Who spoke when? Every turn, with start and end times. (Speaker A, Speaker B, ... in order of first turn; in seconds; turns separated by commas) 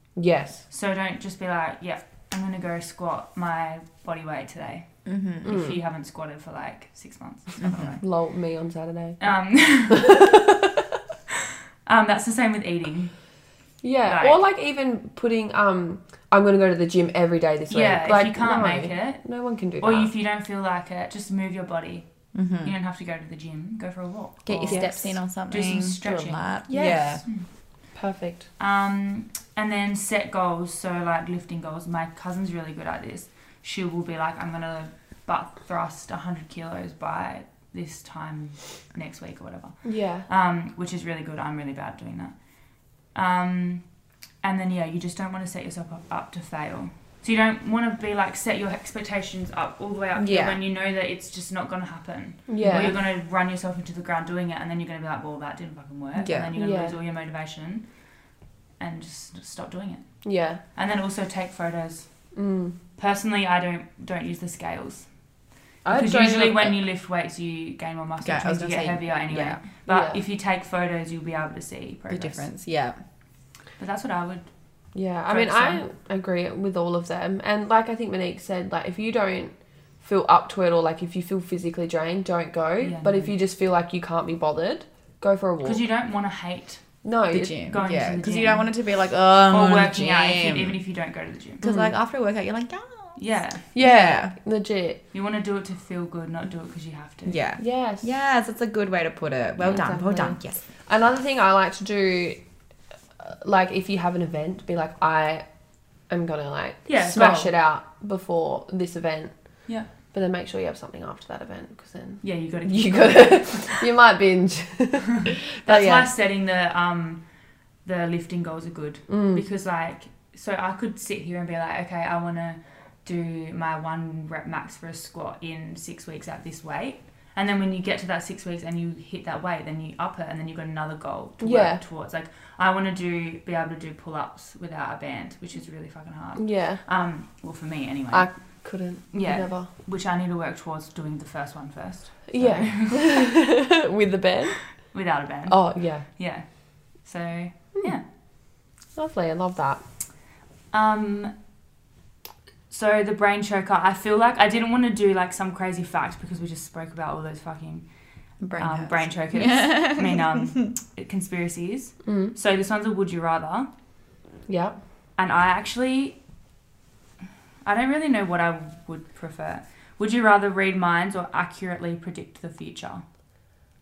Speaker A: 0.2-0.6, Speaker B: 0.7-4.9, Speaker C: 5.1-5.5, Speaker B: 5.4-8.0, Speaker A: 5.5-5.8, Speaker C: 7.6-8.0, Speaker A: 8.0-9.2, Speaker B: 9.2-10.3, Speaker A: 9.9-10.8, Speaker B: 11.9-13.1, Speaker A: 13.8-20.1, Speaker B: 14.1-14.4, Speaker B: 17.7-19.2, Speaker B: 19.8-22.1, Speaker C: 22.3-22.7, Speaker B: 22.6-27.4, Speaker C: 24.4-27.2, Speaker A: 24.7-24.9, Speaker A: 26.7-27.2, Speaker A: 27.9-28.4, Speaker B: 28.6-42.3, Speaker A: 39.8-40.3, Speaker B: 43.1-43.8, Speaker B: 44.4-57.9, Speaker C: 50.1-50.6, Speaker A: 52.5-53.0, Speaker C: 52.6-53.0, Speaker C: 56.2-56.5, Speaker A: 56.5-56.9, Speaker B: 58.8-60.1, Speaker A: 60.2-60.6, Speaker B: 60.8-62.1, Speaker A: 62.4-62.8, Speaker B: 63.0-65.1, Speaker A: 65.8-66.8, Speaker B: 65.9-72.5, Speaker C: 68.2-69.6, Speaker A: 69.9-70.2, Speaker C: 72.1-73.0, Speaker B: 73.8-74.5, Speaker A: 75.0-85.8, Speaker B: 75.3-75.8, Speaker B: 82.8-83.3, Speaker B: 85.6-86.8, Speaker A: 87.0-87.6, Speaker C: 87.3-90.8, Speaker B: 87.6-88.7, Speaker B: 89.5-91.6, Speaker C: 91.6-93.2, Speaker A: 91.6-91.9, Speaker B: 93.2-93.6, Speaker A: 93.7-95.0, Speaker C: 93.8-94.3, Speaker B: 95.1-97.4, Speaker C: 97.3-100.6, Speaker A: 97.6-98.1, Speaker A: 99.6-102.4, Speaker A: 103.2-105.5, Speaker A: 106.1-109.3, Speaker B: 106.9-107.5, Speaker A: 110.1-116.1, Speaker B: 112.2-113.9, Speaker B: 115.7-117.2, Speaker B: 117.8-138.3, Speaker A: 119.1-119.4, Speaker A: 131.4-131.8, Speaker A: 136.4-136.8, Speaker A: 138.1-139.7, Speaker B: 139.1-143.2, Speaker A: 142.3-144.6, Speaker B: 144.9-146.4, Speaker A: 145.5-146.1, Speaker B: 147.0-148.0, Speaker A: 148.9-149.8, Speaker B: 150.7-151.3, Speaker B: 152.7-157.8, Speaker C: 158.4-160.7, Speaker B: 158.6-163.7, Speaker A: 162.1-162.3, Speaker A: 164.5-164.8, Speaker B: 165.2-166.2, Speaker B: 167.6-173.0